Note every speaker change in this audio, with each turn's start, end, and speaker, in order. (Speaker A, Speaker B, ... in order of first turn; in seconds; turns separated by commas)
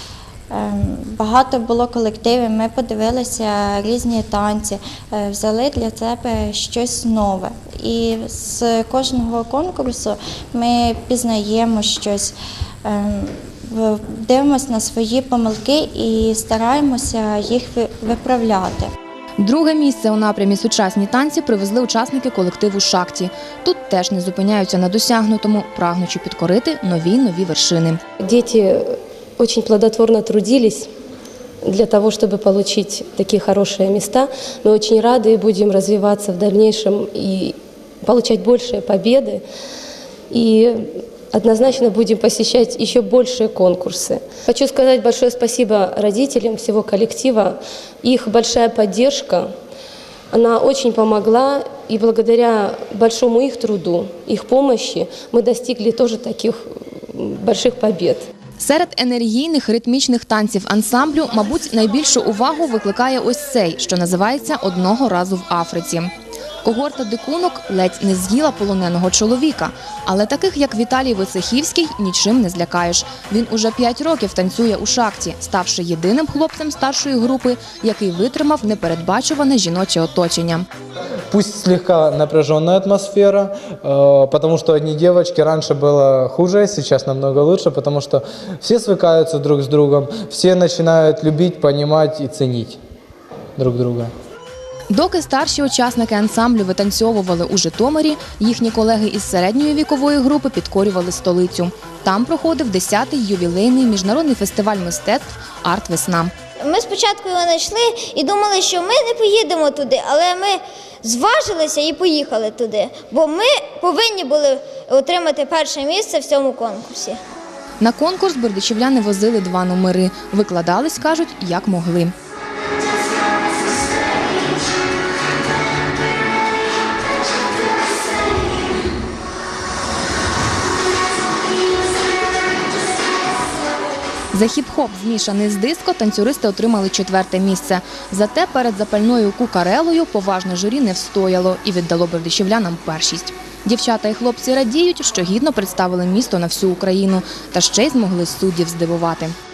Speaker A: 0.5-18.9, Speaker B: 19.4-28.0, Speaker C: 28.2-30.9, Speaker C: 31.6-39.4, Speaker C: 40.3-49.5, Speaker C: 50.3-58.3, Speaker B: 58.6-66.1, Speaker B: 66.6-80.7, Speaker D: 81.3-92.8, Speaker D: 93.6-94.1, Speaker B: 94.9-106.3, Speaker E: 106.6-117.2, Speaker B: 117.8-122.1, Speaker B: 134.3-149.3